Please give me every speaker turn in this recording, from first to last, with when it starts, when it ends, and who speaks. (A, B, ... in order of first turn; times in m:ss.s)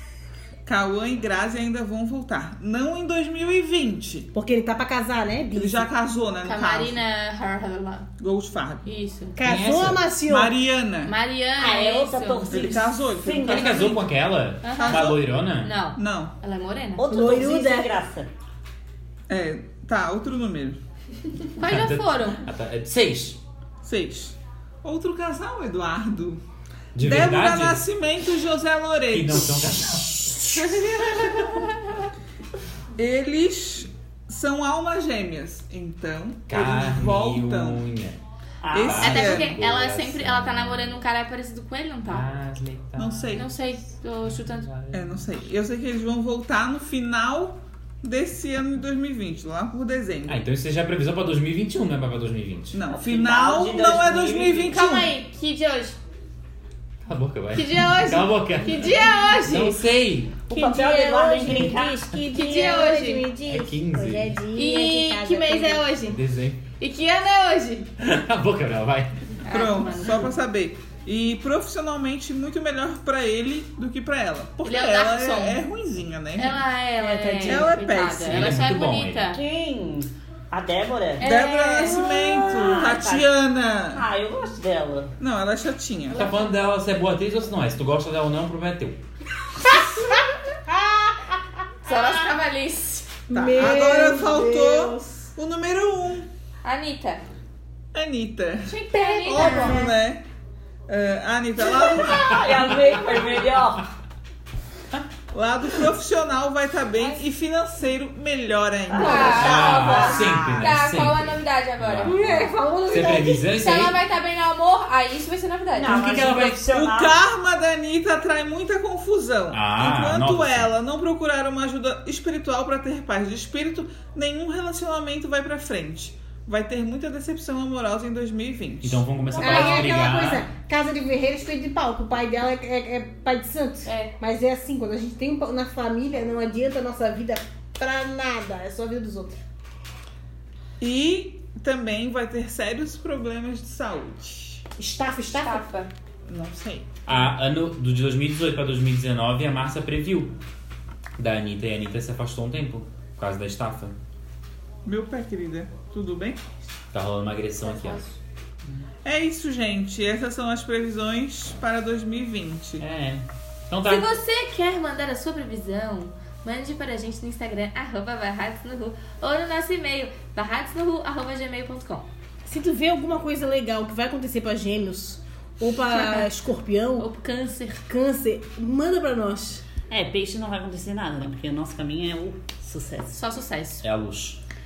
0:00.6-0:04.3 A
0:04.3-0:05.9 B
0:05.5-0:07.0 A
0:06.4-0:08.1 C
0:08.2-0:08.9 A
0:08.8-0:09.4 C
0:09.4-0:10.6 B
0:09.4-0:10.1 D
0:09.7-0:11.2 A
0:11.0-0:12.8 C
0:11.6-0:14.0 E
0:12.5-0:14.1 A
0:13.4-0:15.7 D
0:14.6-0:17.1 C
0:14.8-0:15.4 A
0:16.0-0:16.3 A
0:17.0-0:18.3 E
0:17.1-0:17.9 B
0:19.3-0:20.8 A
0:21.6-0:22.4 C
0:21.6-0:23.4 D
0:23.8-0:26.4 A
0:27.0-0:27.8 D
0:27.0-0:29.6 A
0:29.1-0:31.3 D
0:30.7-0:31.4 A
0:33.0-0:37.8 A
0:36.5-0:38.2 D
0:38.6-0:39.2 E
0:38.7-0:39.6 A
0:38.8-0:41.0 D
0:38.9-0:42.3 C
0:42.1-0:43.4 D
0:43.0-0:43.5 A
0:43.3-0:44.7 C
0:44.3-0:45.3 D
0:44.9-0:50.4 A
0:50.3-0:52.8 D
0:52.7-0:55.1 A
0:52.9-0:54.8 E
0:54.7-0:56.0 C
0:57.0-1:00.4 D
0:57.6-0:59.8 C
1:00.5-1:03.0 E
1:00.5-1:05.9 B
1:02.3-1:03.3 C
1:03.5-1:04.4 D
1:04.5-1:06.2 C
1:06.1-1:06.6 D
1:06.8-1:07.9 C
1:08.0-1:09.4 D
1:09.4-1:10.3 C
1:09.5-1:16.6 A
1:14.6-1:15.6 C
1:16.4-1:19.4 C
1:17.0-1:17.7 B
1:17.4-1:18.6 A
1:18.2-1:19.2 D
1:19.3-1:21.2 E
1:21.2-1:22.3 C
1:21.2-1:24.0 A
1:21.9-1:23.3 E
1:23.9-1:25.2 E
1:25.2-1:26.2 A
1:26.1-1:29.0 D
1:30.7-1:31.4 B
1:31.8-1:33.1 C
1:33.3-1:35.3 B
1:33.3-1:36.3 A
1:36.6-1:37.2 C
1:37.9-1:40.2 A
1:38.7-1:39.8 C
1:39.0-1:40.0 B
1:40.9-1:42.5 A
1:41.8-1:43.8 E
1:42.1-1:43.6 D
1:45.3-1:49.6 A
1:48.9-1:50.7 E
1:49.0-1:56.1 C
1:49.2-1:54.0 D
1:55.8-1:57.2 E
1:55.9-1:56.7 D
1:56.2-2:09.0 A
1:59.5-2:00.7 D
2:08.8-2:10.5 D
2:09.3-2:19.4 B
2:09.4-2:10.0 C
2:13.8-2:14.1 C
2:20.8-2:24.6 A
2:24.8-2:25.6 B
2:25.3-2:25.9 C
2:26.3-2:26.9 A
2:27.1-2:30.3 D
2:31.2-2:34.0 D
2:34.8-2:36.4 A
2:36.9-2:38.0 D
2:37.6-2:38.2 C
2:39.0-2:42.8 A
2:42.8-2:44.1 D
2:43.8-2:52.1 C
2:52.5-2:57.1 B
2:55.9-2:56.3 C
2:57.0-2:57.8 C
2:57.8-2:59.6 B
2:59.9-3:03.2 E
3:03.1-3:03.8 C
3:03.8-3:04.4 D